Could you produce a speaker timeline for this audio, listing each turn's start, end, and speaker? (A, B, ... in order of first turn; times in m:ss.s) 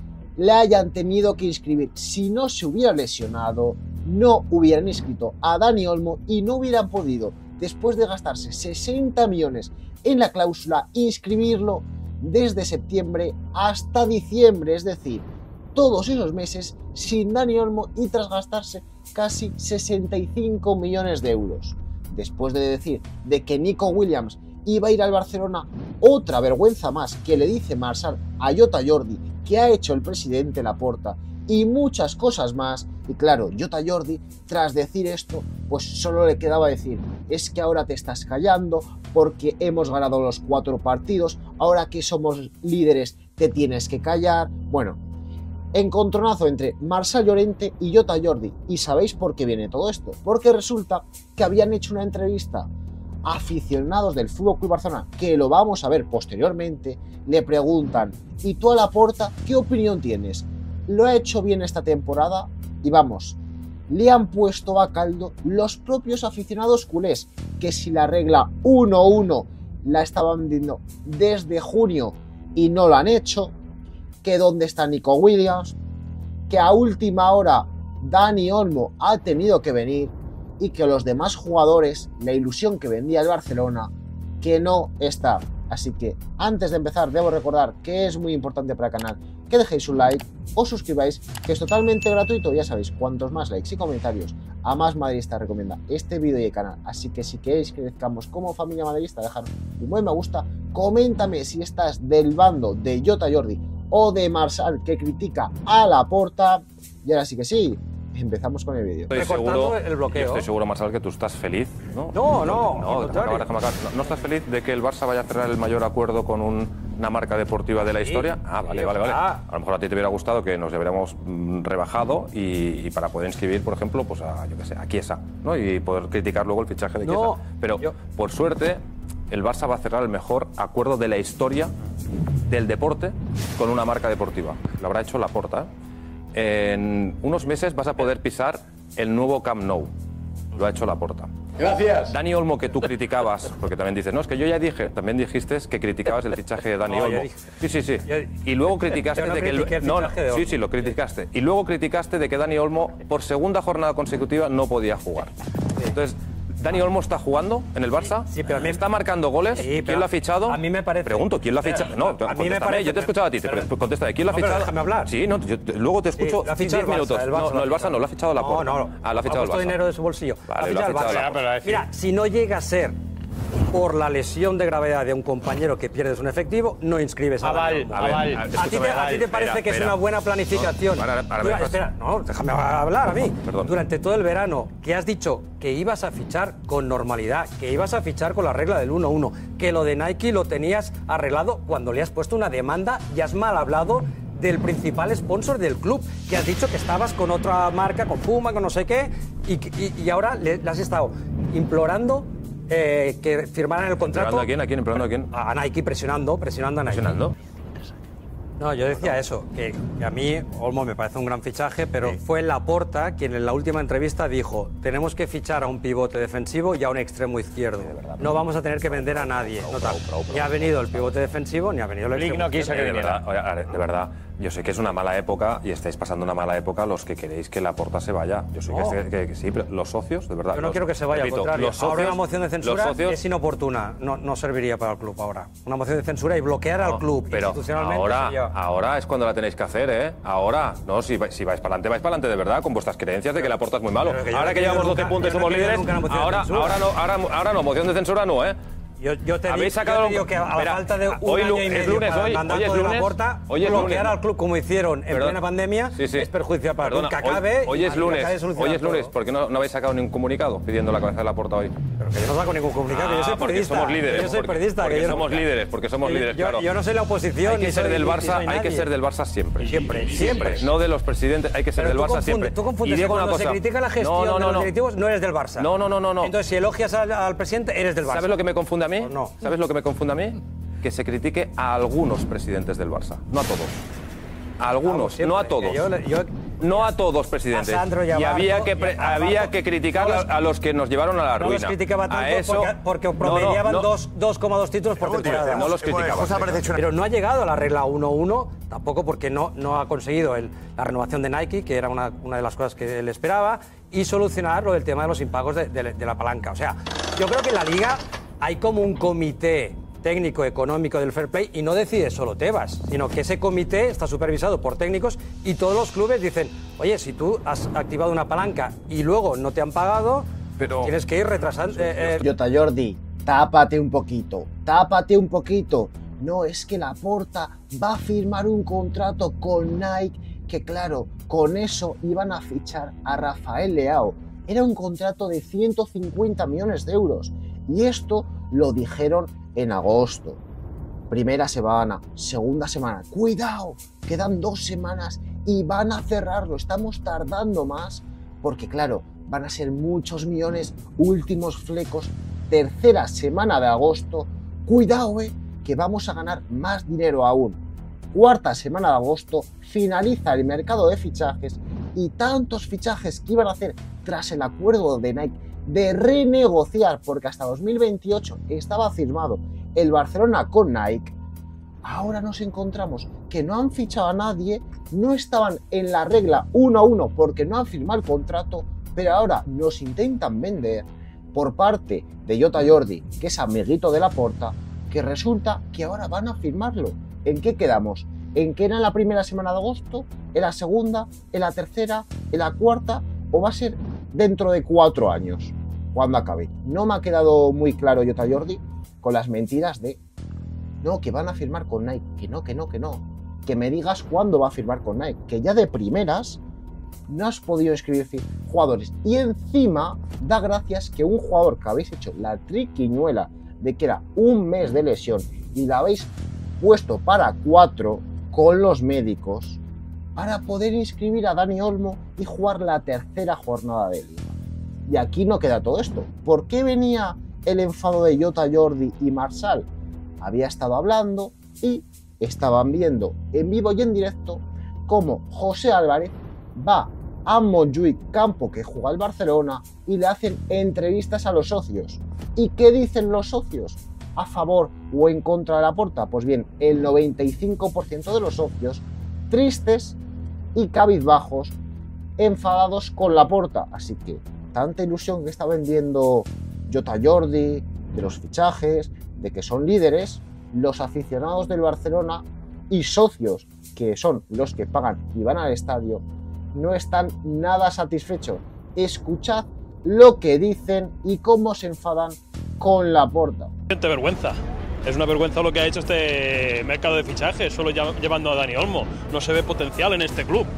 0:00.4-0:45.0 A
0:45.7-0:52.7 A
0:53.2-1:03.4 A
1:03.9-1:13.5 A
1:14.2-1:15.8 A
1:16.5-1:23.9 A
1:24.4-1:49.2 A
1:49.1-2:11.7 B
1:49.1-1:50.5 C
1:52.1-1:53.5 C
1:58.0-1:59.4 C
2:07.0-2:08.0 C
2:12.5-2:15.7 B
2:16.3-2:19.9 B
2:20.5-2:35.3 B
2:26.8-2:27.3 C
2:28.0-2:28.3 C
2:29.0-2:30.8 C
2:35.8-2:49.8 B
2:38.1-2:38.8 C
2:39.5-2:43.7 C
2:44.2-2:45.1 C
2:46.2-2:53.0 C
2:50.5-2:51.5 B
2:53.7-3:24.5 C
2:57.9-3:01.8 B
3:03.4-3:03.8 B
3:24.0-3:25.3 B
3:25.3-3:27.2 C
3:26.8-3:27.3 B
3:28.6-3:42.9 C
3:28.8-3:29.2 B
3:37.7-3:41.4 B
3:42.7-3:53.2 B
3:48.7-3:49.0 C
3:50.5-3:58.5 C
3:56.8-4:08.6 B
4:04.0-4:06.8 C
4:09.0-4:19.1 C
4:09.4-4:14.2 B
4:15.1-4:16.3 B
4:16.8-4:21.7 B
4:22.0-4:25.5 C
4:22.9-4:26.7 B
4:26.0-4:28.9 C
4:27.4-4:34.7 B
4:29.6-4:30.7 C
4:31.7-4:38.3 C
4:35.6-4:36.3 B
4:38.0-4:43.8 B
4:39.0-4:39.4 C
4:44.6-4:45.9 B
4:44.8-4:46.9 C
4:46.6-4:53.9 B
4:47.5-4:50.3 C
4:51.4-4:55.8 C
4:55.1-4:56.8 B
4:56.7-5:22.2 C
5:22.2-5:40.4 A
5:41.1-5:57.6 A
5:58.1-6:11.1 A
6:11.8-6:40.0 A
6:40.8-6:46.4 A
6:47.1-6:59.6 A
7:00.2-7:09.7 A
7:10.2-7:30.0 A
7:30.5-7:31.5 A
7:32.2-7:53.5 A
7:53.7-8:00.5 D